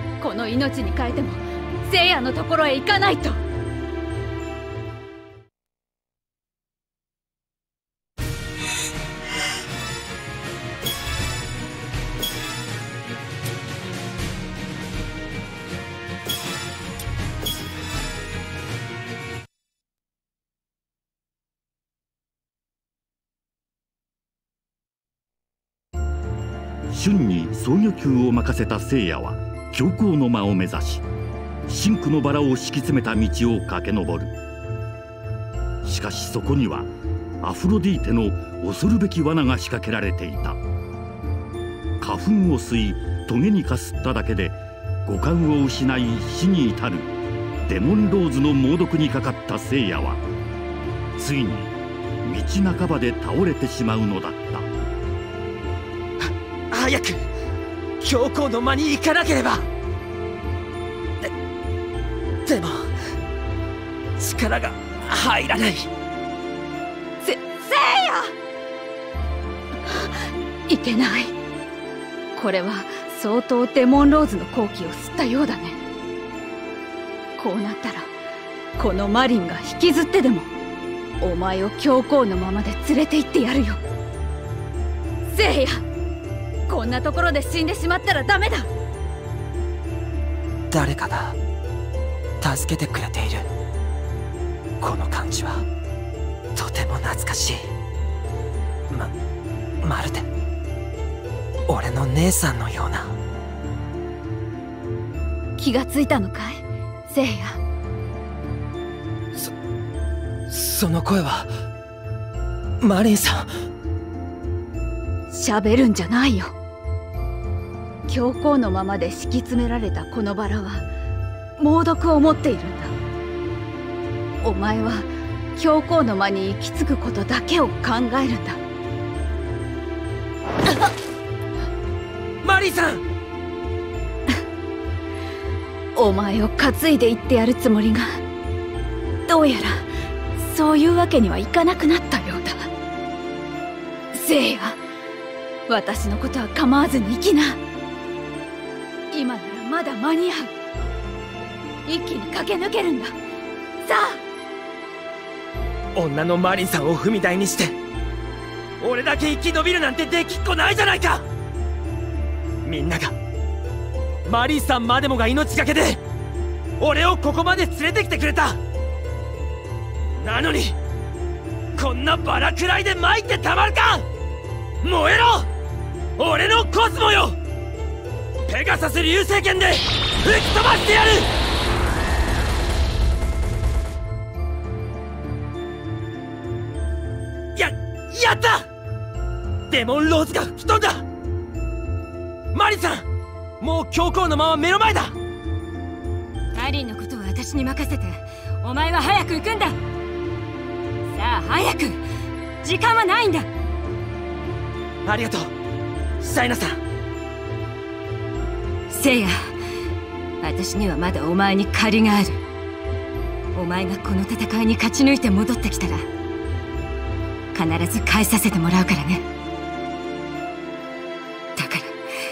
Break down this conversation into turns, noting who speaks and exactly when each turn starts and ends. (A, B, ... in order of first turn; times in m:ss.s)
0:00.2-0:03.4 A
0:26.9-0:31.0 B
0:31.7-0:34.3 B
0:35.8-0:36.9 B
0:37.4-0:40.6 B
0:42.0-0:47.1 B
0:47.7-0:50.2 B
0:51.2-0:51.7 B
0:52.2-0:54.7 B
0:56.2-0:57.3 C
0:58.0-0:59.7 C
1:02.5-1:03.0 C
1:04.2-1:05.9 C
1:07.2-1:08.3 A
1:09.9-1:11.3 A
1:12.4-1:15.8 A
1:17.4-1:18.1 A
1:18.8-1:20.5 A
1:21.2-1:23.8 A
1:25.3-1:25.8 A
1:26.7-1:28.7 A
1:30.7-1:31.4 C
1:32.4-1:33.5 C
1:34.8-1:35.7 C
1:36.6-1:37.7 C
1:39.8-1:40.3 C
1:41.7-1:43.1 C
1:45.6-1:47.6 A
1:50.5-1:51.5 C
1:52.8-1:53.6 C
1:55.3-1:56.5 A
1:58.1-2:00.8 A
2:01.6-2:02.9 A
2:04.4-2:08.6 A
2:12.4-2:13.0 C
2:16.0-2:18.2 A
2:19.3-2:22.7 A
2:24.1-2:24.8 A
2:25.7-2:27.6 A
2:29.1-2:30.5 A
2:31.9-2:33.2 A
2:33.8-2:34.2 A
2:36.0-2:37.8 C
2:38.8-2:41.3 C
2:42.6-2:43.2 C
2:44.2-2:46.0 C
2:46.8-2:48.6 C
2:50.2-2:50.8 C
2:51.8-2:54.1 C
2:54.8-2:55.5 C
2:56.2-2:57.4 C
2:58.5-3:01.3 C
3:07.6-3:08.7 C
3:09.7-3:11.0 C
3:12.5-3:13.1 C
3:13.6-3:15.2 C
3:16.5-3:19.8 D
3:21.1-3:22.0 D
3:22.6-3:23.5 D
3:25.1-3:25.5 C
3:26.2-3:26.8 C
3:28.9-3:29.6 D
3:30.4-3:32.4 D
3:33.5-3:36.0 D
3:37.5-3:39.2 D
3:41.6-3:42.0 D